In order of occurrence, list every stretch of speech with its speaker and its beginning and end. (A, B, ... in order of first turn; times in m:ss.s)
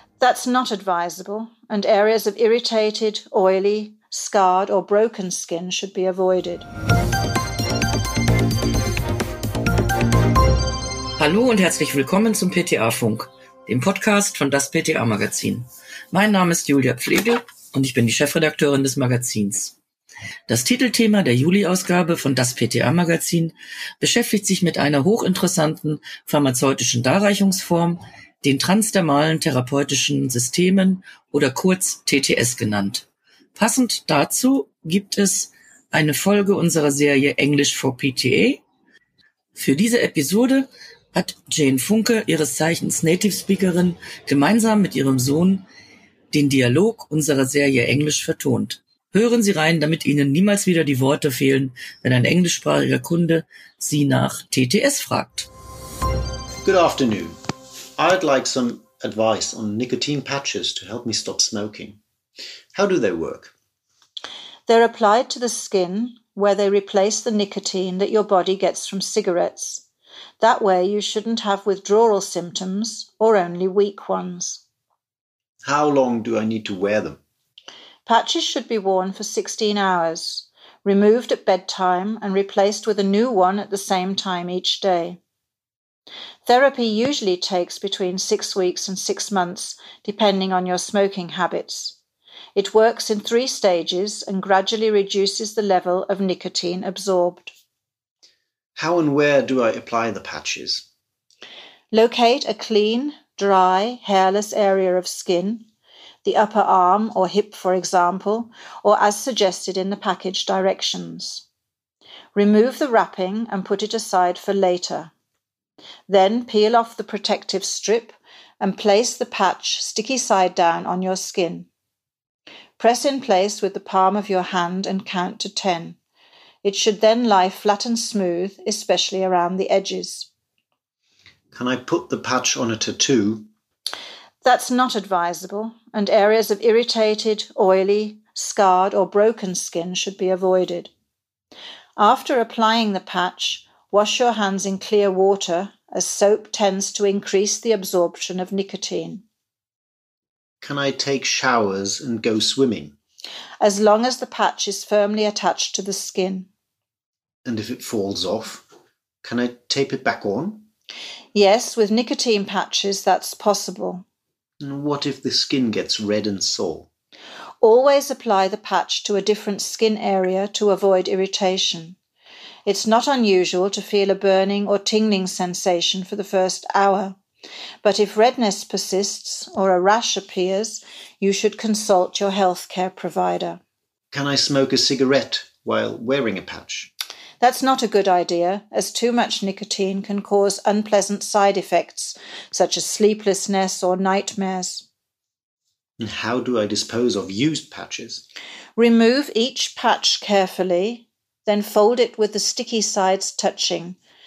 0:00.2-0:06.7 A
0:11.2-0:19.8 B
0:20.5-0:38.6 B
0:39.5-0:45.6 B
0:46.3-0:55.5 B
0:56.6-0:57.4 C
0:58.0-1:02.0 C
1:02.7-1:03.5 C
1:04.7-1:09.8 A
1:10.4-1:14.6 A
1:15.6-1:17.2 C
1:18.0-1:25.2 A
1:26.4-1:32.0 A
1:32.5-1:37.5 A
1:38.8-1:40.8 C
1:41.9-1:45.7 A
1:46.2-1:51.4 A
1:52.3-1:55.1 A
1:56.1-2:01.7 A
2:02.8-2:06.0 A
2:06.6-2:10.3 A
2:11.5-2:13.5 C
2:14.4-2:20.9 A
2:22.0-2:29.2 A
2:30.6-2:33.0 C
2:33.6-2:36.5 A
2:37.4-2:38.6 C
2:39.2-2:40.6 C
2:41.3-2:44.0 A
2:44.6-2:46.9 C
2:47.6-2:52.0 A
2:52.6-2:57.2 A
2:57.8-3:03.6 A
3:04.1-3:06.9 C
3:07.4-3:14.8 A
3:16.0-3:18.2 C
3:18.8-3:24.0 A